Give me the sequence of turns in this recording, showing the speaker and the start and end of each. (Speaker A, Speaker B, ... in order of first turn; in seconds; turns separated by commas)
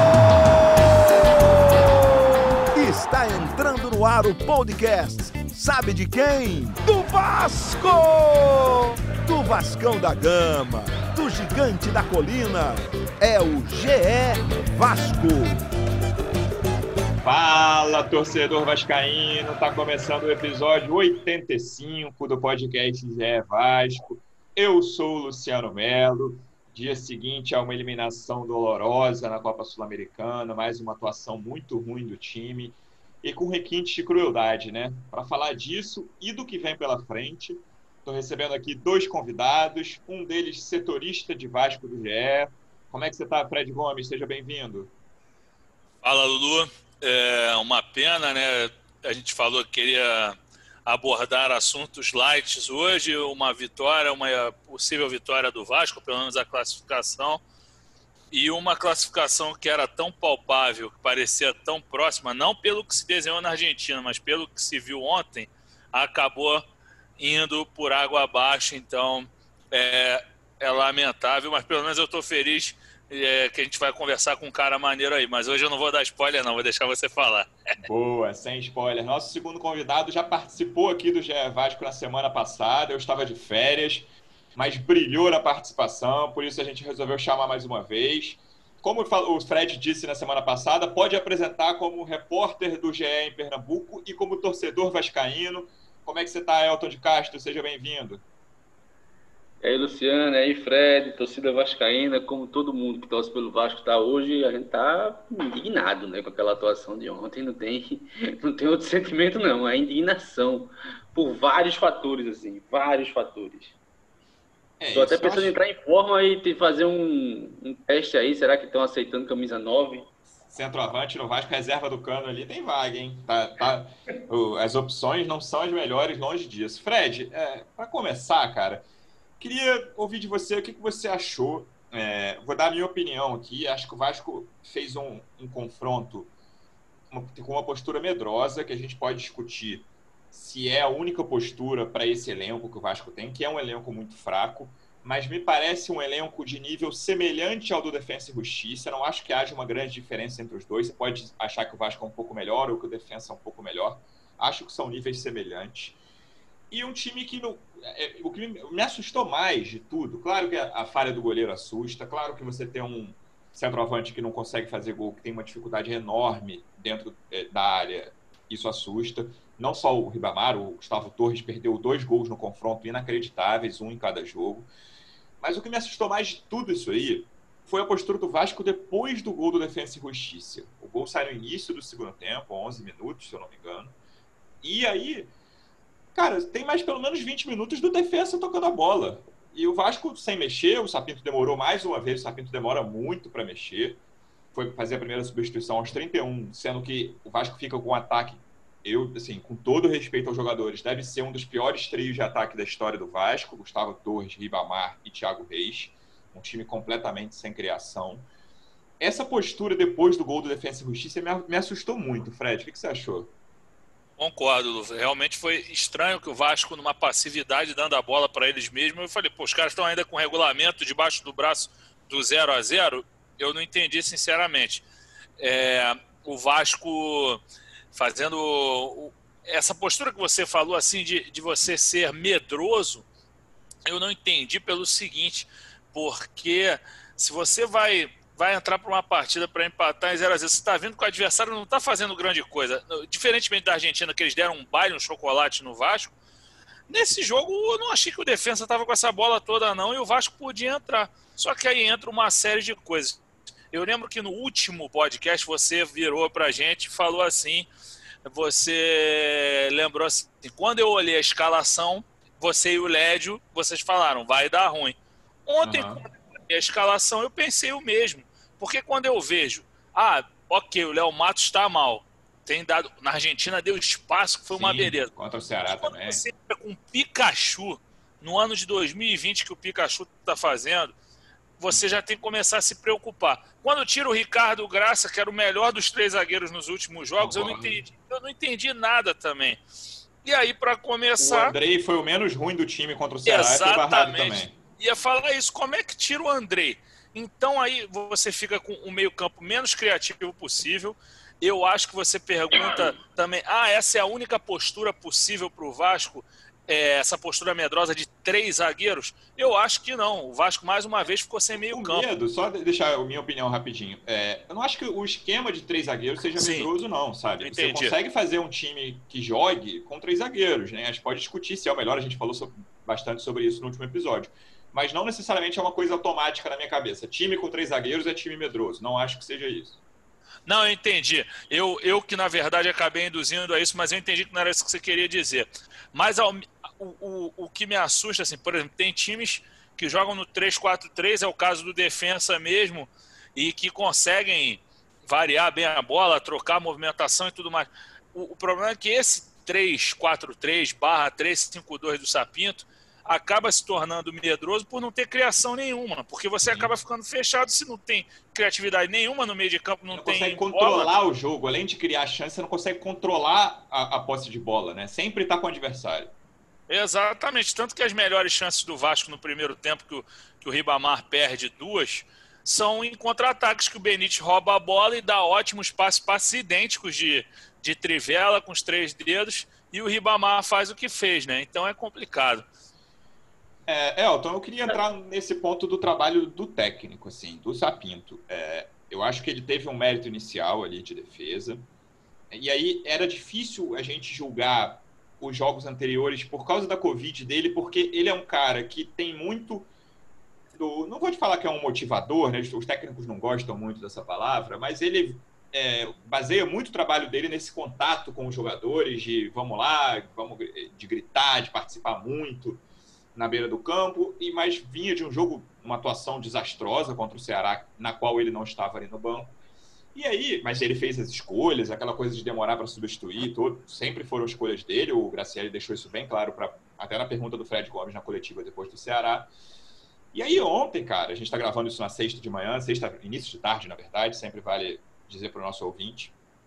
Speaker A: 1.5-1.9, Speaker A: 2.8-15.6, Speaker B: 17.2-44.9, Speaker C: 46.0-57.4, Speaker C: 58.3-66.6, Speaker C: 67.2-77.8, Speaker B: 77.8-98.2, Speaker D: 99.6-113.8, Speaker B: 114.8-115.5, Speaker D: 114.9-120.1, Speaker B: 120.5-128.8, Speaker B: 129.4-136.3, Speaker B: 137.1-156.0, Speaker B: 156.7-174.7, Speaker B: 175.4-184.0, Speaker B: 184.6-185.3, Speaker B: 186.2-194.0, Speaker B: 194.5-208.3, Speaker B: 209.0-213.3, Speaker C: 214.2-224.8, Speaker C: 225.4-227.4, Speaker C: 227.9-233.1, Speaker C: 233.9-246.1, Speaker C: 246.9-253.2, Speaker C: 253.7-257.7, Speaker C: 258.2-275.1, Speaker B: 265.6-266.0, Speaker B: 274.5-276.2, Speaker C: 275.8-280.9, Speaker C: 281.6-289.6, Speaker B: 287.2-287.8, Speaker C: 290.2-291.6, Speaker B: 291.2-294.5, Speaker C: 293.2-312.1, Speaker B: 311.7-329.8, Speaker C: 316.4-316.7, Speaker C: 317.4-317.9, Speaker C: 330.4-360.9, Speaker B: 356.5-356.7, Speaker B: 359.9-366.1, Speaker C: 366.7-382.4, Speaker B: 383.7-391.7, Speaker B: 392.3-399.7, Speaker B: 400.5-412.6, Speaker B: 413.1-419.4, Speaker B: 419.9-429.3, Speaker B: 430.1-436.1